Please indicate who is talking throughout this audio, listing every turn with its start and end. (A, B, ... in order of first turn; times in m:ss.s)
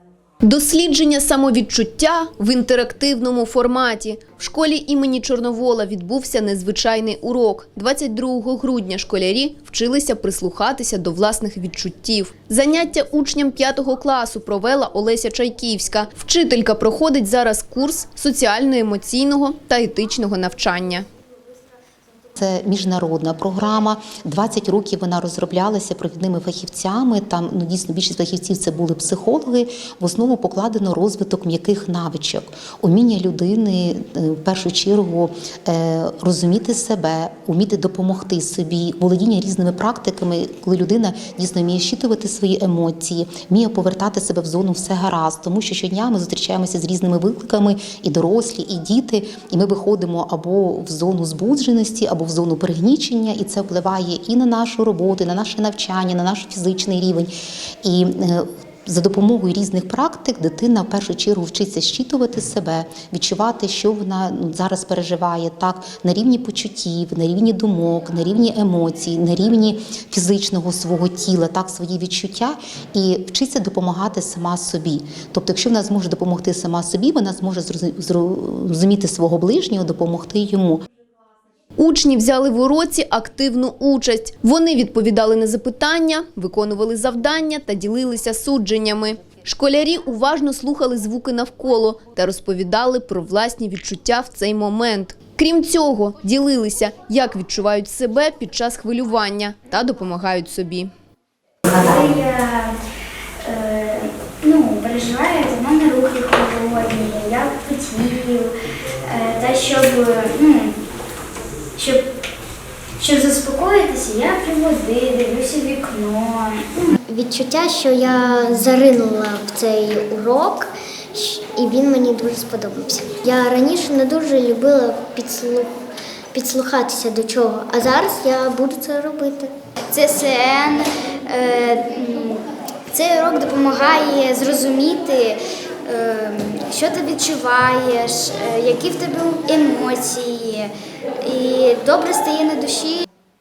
0:00.4-0:21.1 A
0:22.4-0:57.3 B
0:57.8-1:20.8 B
1:21.8-1:40.9 A
1:41.7-1:42.7 C
1:43.4-1:48.5 C
1:49.0-1:50.8 C
1:51.8-1:52.0 C
1:53.0-1:57.0 C
1:57.1-2:05.7 D
2:06.3-2:09.5 D
2:09.9-2:23.0 C